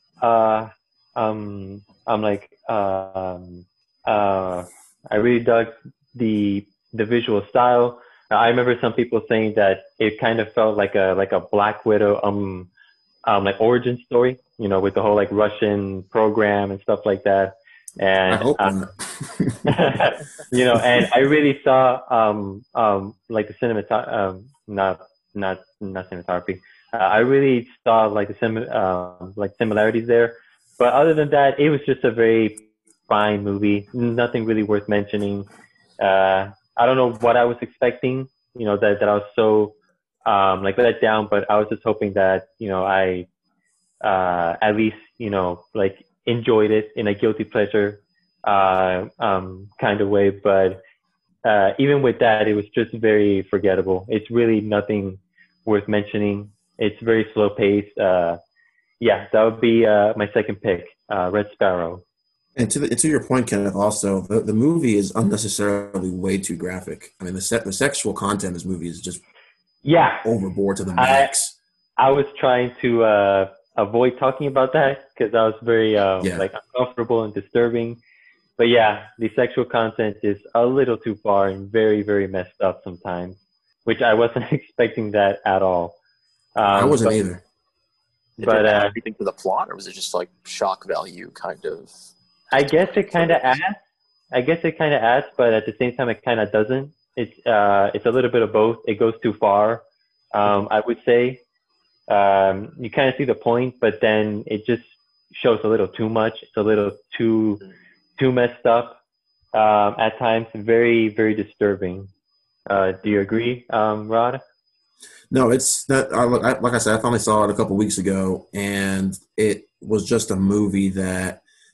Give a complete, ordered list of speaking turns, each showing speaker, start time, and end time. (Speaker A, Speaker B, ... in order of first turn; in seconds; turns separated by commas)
Speaker A: 0.2-12.7, Speaker A: 13.2-18.7, Speaker B: 18.3-20.1, Speaker A: 19.7-35.5, Speaker B: 20.8-21.0, Speaker A: 36.0-39.7, Speaker A: 40.2-43.3, Speaker A: 44.0-50.8, Speaker A: 51.4-58.4, Speaker A: 59.0-62.0, Speaker B: 62.6-69.2, Speaker A: 69.8-70.2, Speaker B: 70.2-71.6, Speaker A: 71.0-71.3, Speaker A: 72.0-78.0, Speaker B: 76.2-76.5, Speaker A: 78.6-86.0, Speaker A: 86.6-87.2, Speaker B: 86.7-87.4, Speaker C: 88.4-91.9, Speaker A: 88.4-89.0, Speaker A: 92.5-93.8, Speaker C: 93.1-93.6, Speaker A: 94.3-101.4, Speaker A: 102.1-107.6, Speaker A: 108.2-109.0, Speaker A: 109.5-112.1, Speaker A: 112.7-114.4, Speaker B: 115.3-121.4